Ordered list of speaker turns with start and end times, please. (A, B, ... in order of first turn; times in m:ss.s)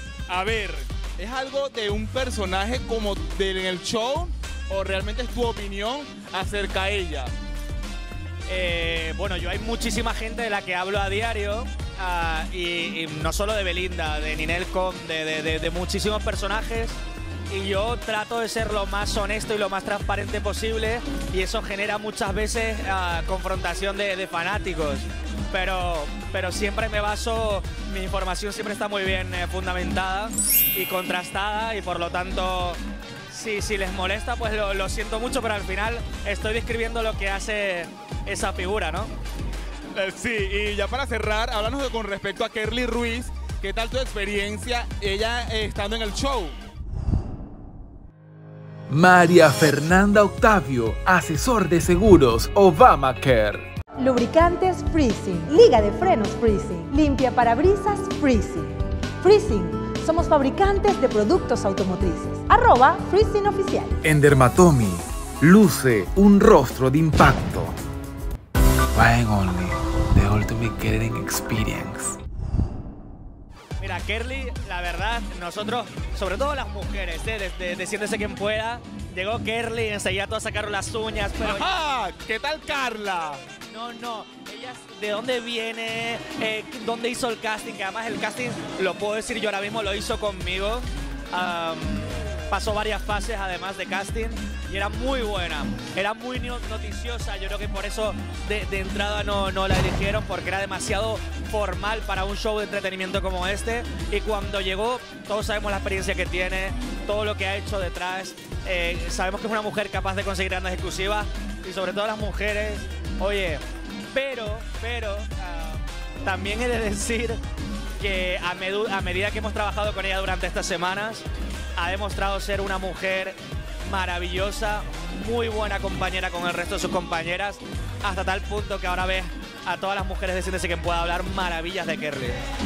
0:00.3-0:07.3 A
0:08.5-0:17.0 B
0:17.5-0:39.1 B
0:39.9-0:46.6 A
0:48.9-0:53.6 C
0:54.0-1:04.0 D
1:04.0-1:07.8 C
1:08.9-1:12.2 C
1:13.8-1:21.7 B
1:21.4-1:23.4 A
1:23.7-1:57.4 B
1:58.0-2:12.4 B